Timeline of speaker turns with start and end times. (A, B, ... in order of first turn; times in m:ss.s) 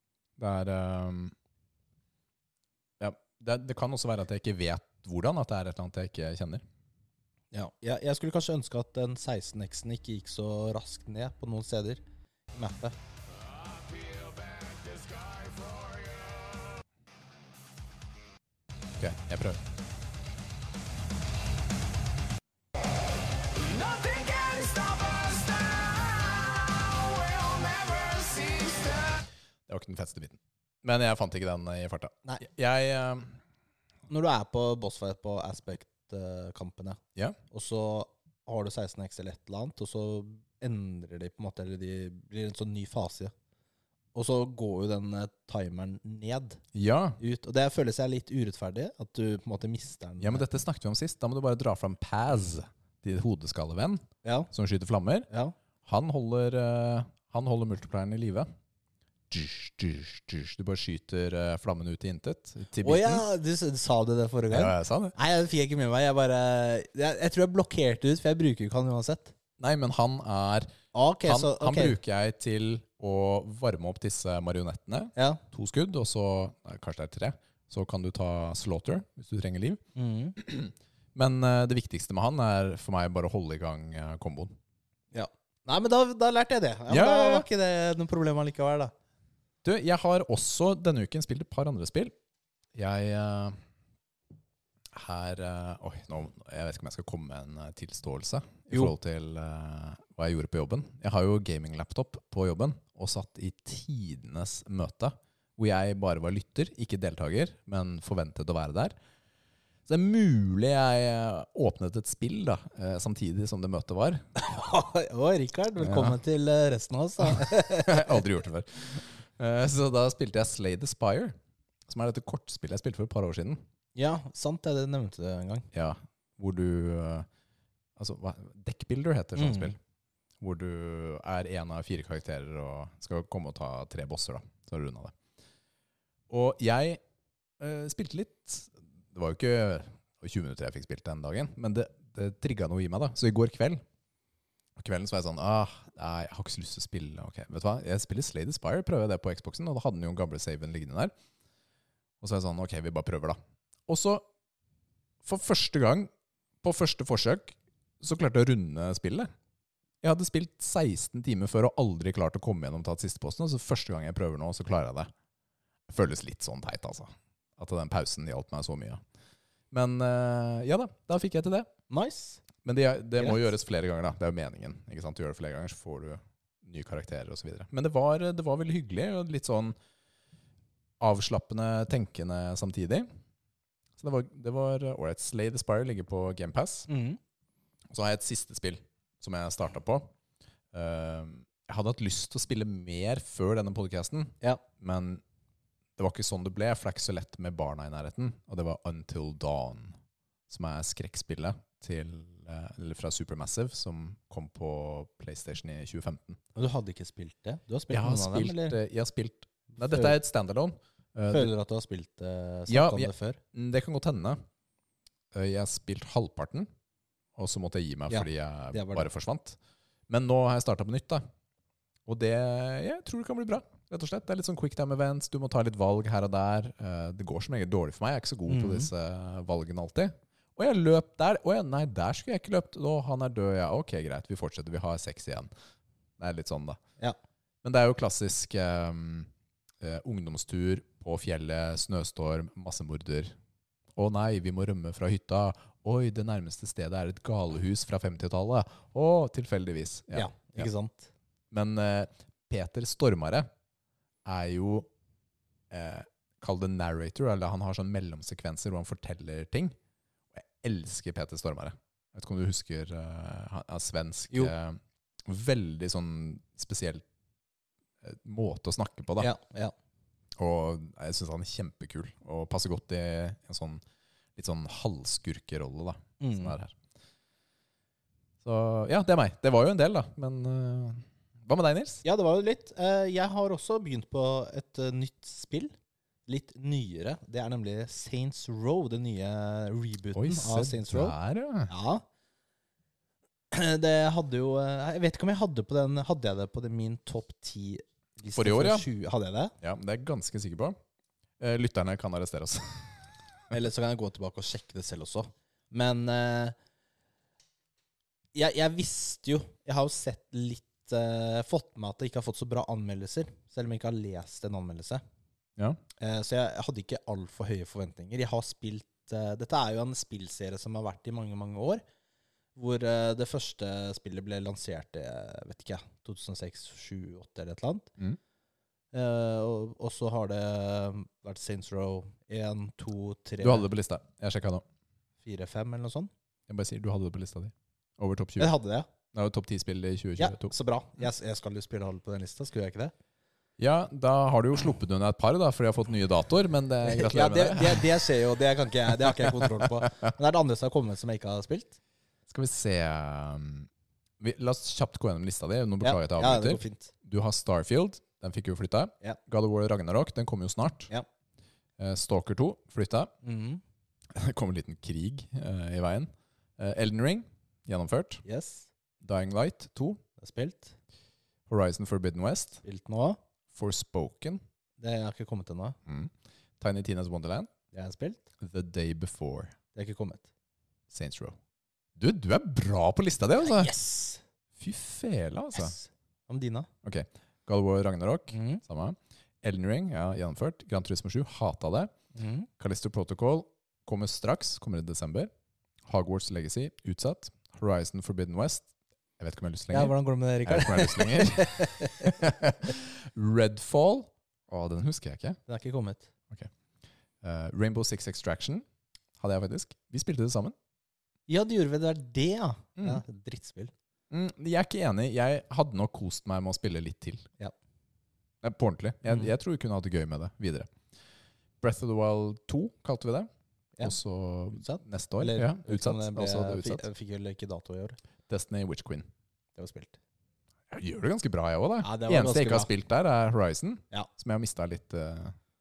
0:00.4-0:01.4 A
0:03.0-0:06.6 A
0:07.5-0:13.0 B
0:13.9-0:16.2 C
0:19.0-0:19.6 A
0:23.5-0:29.2 C
0:29.7-0:33.4 A
0:34.1-0:43.3 B
0:44.1-0:46.6 B
0:46.7-0:47.2 A
0:47.2-0:50.4 B
0:50.2-0:55.3 A
0:54.2-0:54.5 B
0:55.3-0:55.6 B
0:55.8-0:58.5 A
0:59.3-1:03.2 A
1:02.8-1:09.3 B
1:04.5-1:05.1 A
1:09.6-1:10.7 A
1:10.9-1:12.0 B
1:11.2-1:19.8 A
1:15.2-1:15.4 B
1:20.0-1:20.4 B
1:20.4-1:24.6 A
1:25.1-1:28.9 B
1:26.9-1:27.4 A
1:29.6-1:32.1 A
1:32.7-1:33.6 A
1:34.9-1:48.9 A
1:49.9-1:54.2 A
1:54.4-1:58.2 B
1:55.8-1:56.2 A
1:57.2-2:01.4 A
2:01.9-2:03.6 A
2:04.0-2:05.7 B
2:05.7-2:07.3 A
2:08.0-2:09.8 A
2:09.4-2:09.7 B
2:10.4-2:15.1 A
2:16.3-2:17.0 A
2:17.6-2:23.8 A
2:24.8-2:31.1 A
2:32.2-2:34.3 A
2:35.2-2:36.1 A
2:36.6-2:39.3 A
2:40.0-2:45.1 A
2:45.9-2:49.0 A
2:49.7-2:51.7 A
2:51.9-2:52.4 B
2:52.6-2:59.8 A
3:01.0-3:03.1 A
3:04.0-3:06.9 A
3:06.9-3:07.2 B
3:07.9-3:10.1 A
3:10.7-3:15.2 A
3:16.0-3:20.0 A
3:20.5-3:26.4 A
3:26.6-3:28.8 B
3:27.9-3:31.5 A
3:29.7-3:30.2 B
3:31.3-3:33.4 B
3:32.7-3:34.4 A
3:35.3-3:36.7 A
3:37.4-3:39.6 A
3:38.1-3:39.1 B
3:40.1-3:41.2 A
3:42.1-3:55.5 A
3:48.5-3:48.9 B
3:56.2-3:56.8 A
3:57.6-4:03.3 A
4:04.0-4:10.7 A
4:10.1-4:11.1 B
4:11.5-4:13.5 A
4:14.2-4:14.9 A
4:15.7-4:19.8 A
4:20.3-4:27.0 A
4:28.0-4:29.3 A
4:29.2-4:29.7 B
4:30.4-4:33.8 A
4:34.4-4:36.8 A
4:36.2-4:36.6 B
4:38.4-4:42.0 A
4:42.0-4:45.7 B
4:46.3-4:51.2 B
4:50.1-4:51.7 A
4:51.7-4:52.0 B
4:53.5-4:59.5 B
4:58.4-4:58.9 A
4:59.6-5:00.8 A
5:01.4-5:03.0 A
5:03.5-5:06.6 B
5:08.3-5:15.0 B
5:16.0-5:21.8 B
5:22.6-5:27.9 B
5:28.9-5:33.6 B
5:33.4-5:34.6 A
5:35.2-5:36.1 B
5:36.5-5:38.5 A
5:38.4-5:38.9 B
5:39.1-5:40.5 A
5:40.2-5:42.9 B
5:43.6-5:48.1 A
5:46.8-5:51.8 B
5:49.0-5:49.9 A
5:52.3-5:53.7 A
5:54.2-6:00.9 A
5:55.8-5:56.9 B
6:01.8-6:03.1 A
6:03.2-6:03.6 B
6:04.1-6:08.2 A
6:08.2-6:08.7 B
6:09.0-6:10.0 A
6:10.2-6:10.7 B
6:11.5-6:12.6 A
6:12.6-6:13.2 B
6:13.5-6:14.4 A
6:14.8-6:15.8 B
6:15.9-6:17.5 A
6:17.7-6:18.3 B
6:18.4-6:19.6 A
6:19.7-6:20.3 B
6:20.9-6:21.4 A
6:22.0-6:23.7 A
6:23.4-6:24.2 B
6:24.6-6:25.8 A
6:25.6-6:26.7 B
6:26.8-6:31.9 A
6:28.3-6:28.6 B
6:32.1-6:32.5 B
6:32.6-6:35.3 A
6:35.9-6:45.4 A
6:39.7-6:42.2 B
6:45.5-6:46.1 B
6:47.2-6:48.6 A
6:49.2-6:50.6 A
6:51.3-6:53.7 B
6:54.1-6:57.3 A
6:58.4-7:00.7 A
7:01.6-7:03.3 A
7:03.8-7:06.8 A
7:04.6-7:08.0 B
7:08.3-7:09.1 A
7:09.6-7:10.0 B
7:10.7-7:15.4 A
7:11.8-7:12.7 B